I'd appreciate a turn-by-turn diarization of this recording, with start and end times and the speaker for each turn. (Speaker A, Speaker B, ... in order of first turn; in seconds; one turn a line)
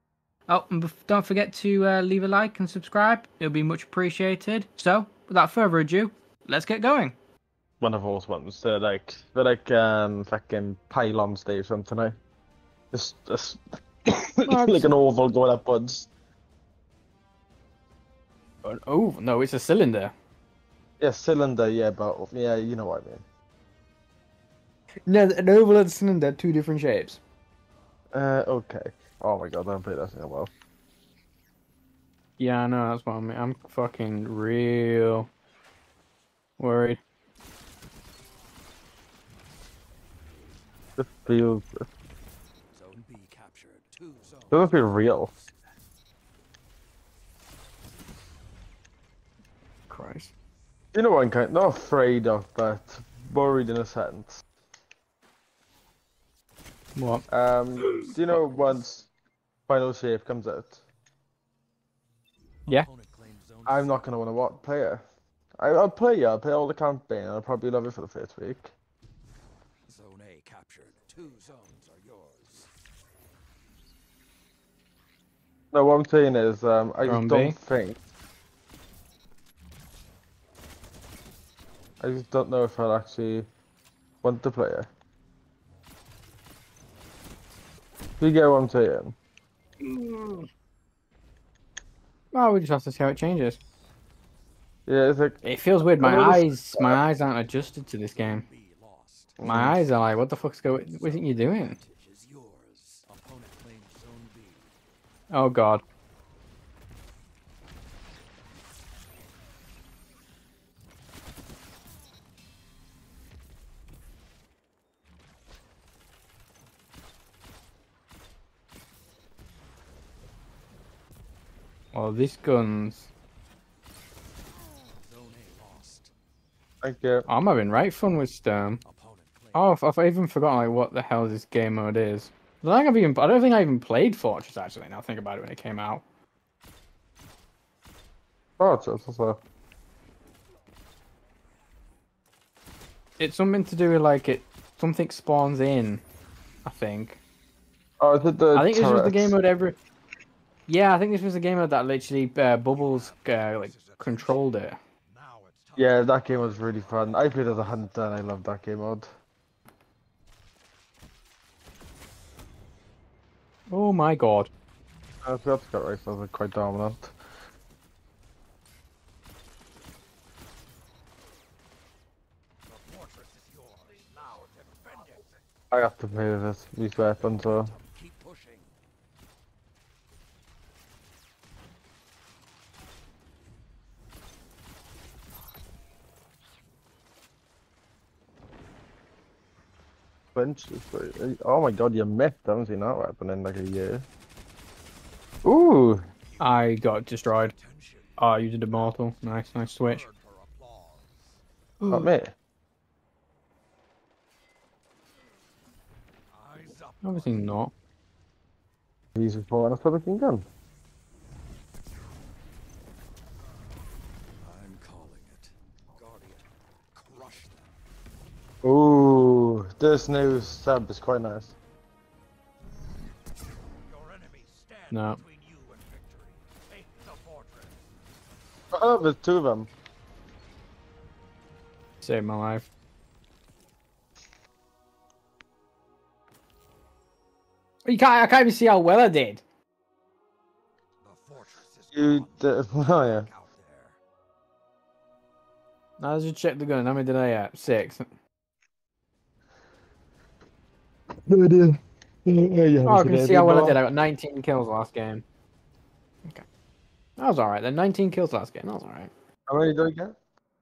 Speaker A: 0.5-7.2
Speaker B: 7.8-12.1
Speaker B: 12.9-16.1
Speaker A: 14.4-14.9
Speaker A: 18.6-20.1
Speaker B: 21.0-23.2
Speaker A: 25.1-27.2
Speaker B: 28.1-30.5
Speaker A: 32.4-35.3
Speaker A: 36.6-37.0
Speaker B: 41.0-41.9
Speaker C: 42.7-45.5
Speaker B: 44.5-45.3
Speaker A: 49.9-50.3
Speaker B: 50.9-54.4
Speaker A: 57.0-57.2
Speaker B: 57.3-59.1
Speaker A: 57.8-58.4
Speaker B: 59.7-60.8
Speaker C: 62.6-64.1
Speaker B: 63.6-65.0
Speaker B: 65.6-68.7
Speaker C: 69.9-72.7
Speaker B: 75.7-78.0
Speaker A: 77.0-77.5
Speaker B: 82.0-83.5
Speaker B: 84.2-84.9
Speaker B: 88.2-89.1
Speaker A: 89.8-90.5
Speaker A: 92.3-93.6
Speaker B: 94.9-95.4
Speaker A: 95.4-98.5
Speaker B: 96.0-97.0
Speaker C: 98.1-104.7
Speaker B: 99.4-99.8
Speaker A: 99.4-101.8
Speaker A: 105.3-105.8
Speaker A: 121.9-123.1
Speaker C: 125.0-126.1
Speaker B: 126.8-127.3
Speaker A: 127.3-128.8
Speaker C: 128.8-129.8
Speaker A: 129.5-136.0
Speaker B: 138.6-139.4
Speaker A: 143.2-146.0
Speaker A: 146.6-147.2
Speaker B: 148.0-149.3
Speaker A: 148.5-149.8
Speaker A: 150.7-154.8
Speaker C: 152.7-154.5
Speaker C: 155.0-156.8
Speaker B: 155.8-159.1
Speaker A: 163.7-164.5
Speaker B: 165.2-167.1
Speaker C: 172.7-175.2
Speaker B: 175.7-177.7
Speaker C: 177.2-178.7
Speaker B: 190.3-194.1
Speaker B: 195.4-196.0
Speaker C: 196.3-196.7
Speaker A: 196.4-197.5
Speaker C: 197.2-198.9
Speaker A: 198.2-200.0
Speaker C: 199.5-201.4
Speaker A: 201.8-202.1
Speaker B: 201.9-202.3
Speaker C: 206.3-207.5
Speaker A: 207.0-207.7
Speaker B: 209.2-210.5
Speaker C: 214.4-217.7
Speaker B: 218.6-221.5
Speaker C: 223.8-227.9
Speaker A: 224.9-225.2
Speaker B: 228.7-229.7
Speaker A: 232.0-232.7
Speaker A: 237.8-239.4
Speaker C: 241.0-242.5
Speaker B: 241.9-243.3
Speaker C: 243.0-244.0
Speaker A: 246.0-248.1
Speaker B: 251.2-253.8
Speaker A: 252.8-255.2
Speaker A: 257.2-259.1
Speaker B: 259.5-260.1